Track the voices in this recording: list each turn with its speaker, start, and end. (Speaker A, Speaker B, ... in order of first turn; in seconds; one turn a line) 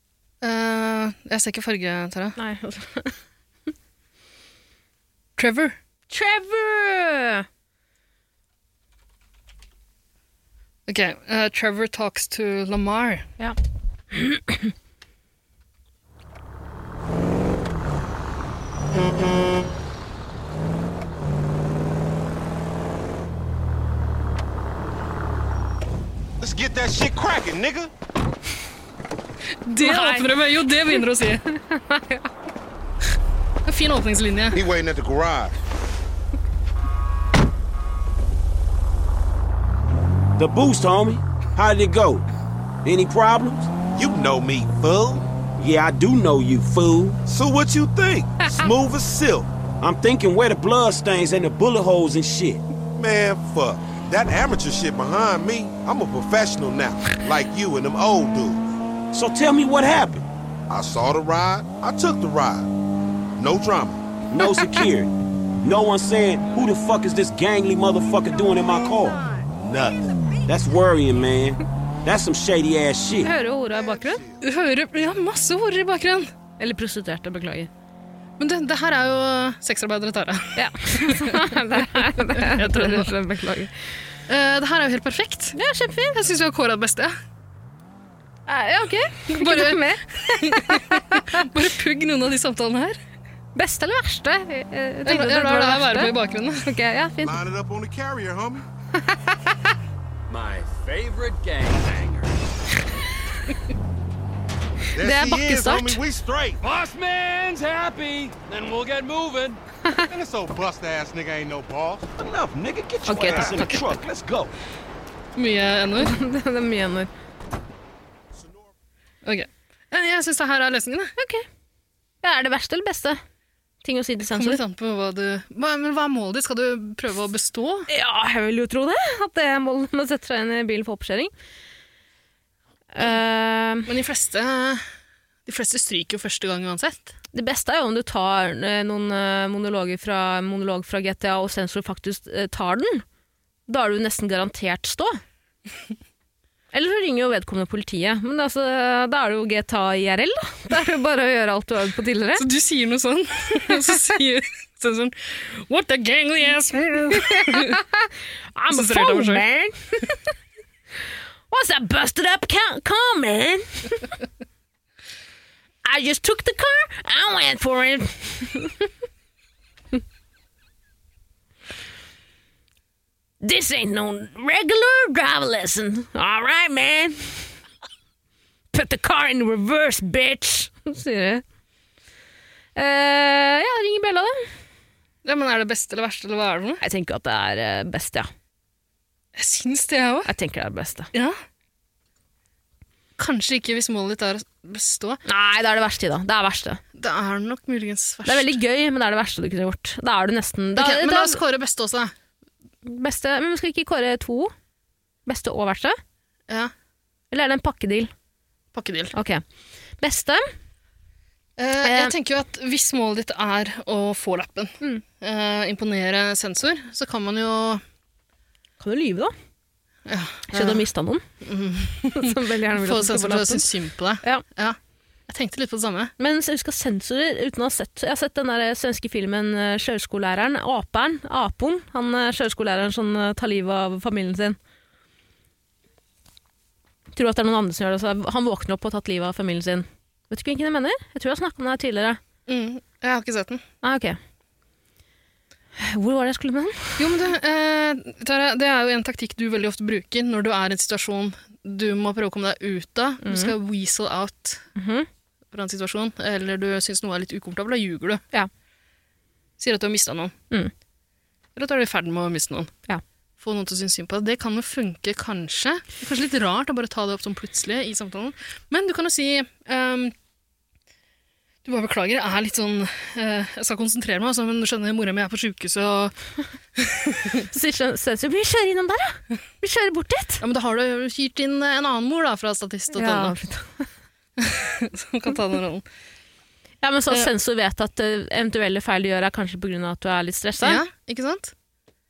Speaker A: 0.4-2.4
Speaker B: 2.4-3.2
Speaker A: 5.4-5.8
Speaker B: 6.1-7.5
Speaker A: 10.9-13.3
Speaker B: 14.1-14.7
Speaker C: 26.4-27.9
Speaker A: 29.6-31.4
Speaker B: 29.8-31.0
Speaker B: 31.5-32.2
Speaker A: 33.6-34.6
Speaker C: 34.5-35.6
Speaker D: 40.4-42.2
Speaker D: 42.8-43.7
Speaker C: 43.9-45.2
Speaker D: 45.6-47.2
Speaker C: 47.2-49.5
Speaker D: 49.8-52.6
Speaker C: 53.0-58.6
Speaker D: 59.1-60.3
Speaker C: 60.7-62.7
Speaker C: 63.4-64.0
Speaker D: 64.3-65.1
Speaker D: 65.6-69.3
Speaker C: 69.6-70.0
Speaker D: 70.5-73.3
Speaker B: 73.2-74.2
Speaker C: 73.7-74.4
Speaker A: 74.4-76.3
Speaker B: 76.6-77.7
Speaker A: 78.4-83.1
Speaker B: 80.5-83.7
Speaker A: 84.3-85.6
Speaker B: 85.5-86.2
Speaker A: 86.1-87.1
Speaker B: 88.5-91.5
Speaker A: 89.3-93.0
Speaker B: 93.5-97.4
Speaker A: 95.0-96.7
Speaker C: 97.2-98.6
Speaker E: 100.3-102.4
Speaker C: 104.9-106.6
Speaker B: 105.0-106.0
Speaker E: 106.6-109.6
Speaker C: 110.1-112.2
Speaker D: 112.2-114.5
Speaker B: 113.0-113.8
Speaker C: 113.3-113.6
Speaker A: 115.3-116.1
Speaker B: 116.0-117.1
Speaker A: 119.2-121.1
Speaker B: 121.2-121.4
Speaker B: 122.2-123.2
Speaker B: 123.8-124.6
Speaker A: 124.2-127.9
Speaker B: 127.9-131.3
Speaker B: 132.9-133.9
Speaker A: 133.9-134.8
Speaker A: 135.4-137.1
Speaker B: 137.3-143.0
Speaker B: 143.7-145.2
Speaker B: 146.7-152.4
Speaker A: 152.3-157.8
Speaker B: 157.2-160.2
Speaker A: 158.7-159.4
Speaker B: 161.5-164.1
Speaker B: 165.8-168.9
Speaker B: 173.4-177.5
Speaker B: 178.7-181.4
Speaker B: 182.8-184.5
Speaker A: 185.2-186.8
Speaker B: 186.8-188.3
Speaker A: 189.3-190.3
Speaker B: 190.2-191.1
Speaker A: 193.2-195.2
Speaker B: 195.2-196.8
Speaker A: 196.9-198.6
Speaker B: 198.2-201.4
Speaker A: 200.8-202.1
Speaker B: 202.8-204.5
Speaker B: 205.2-206.0
Speaker B: 207.3-208.1
Speaker A: 208.7-209.1
Speaker B: 209.1-209.4
Speaker B: 210.0-210.4
Speaker A: 211.6-217.8
Speaker B: 211.8-212.1
Speaker B: 218.8-219.3
Speaker A: 220.1-220.8
Speaker B: 220.5-221.2
Speaker A: 221.4-226.1
Speaker B: 222.1-223.7
Speaker B: 226.2-234.6
Speaker B: 237.1-242.2
Speaker A: 242.5-243.6
Speaker B: 243.8-244.2
Speaker B: 245.8-247.0
Speaker A: 247.0-254.6
Speaker B: 253.2-253.5
Speaker B: 254.8-255.1
Speaker A: 255.5-258.2
Speaker A: 259.6-260.3
Speaker A: 261.6-262.7
Speaker A: 263.4-270.1
Speaker A: 271.6-276.1
Speaker A: 276.8-277.4
Speaker B: 277.4-280.4
Speaker A: 280.4-283.4
Speaker B: 282.9-283.9
Speaker A: 284.4-285.8
Speaker B: 286.8-290.8
Speaker A: 290.6-291.5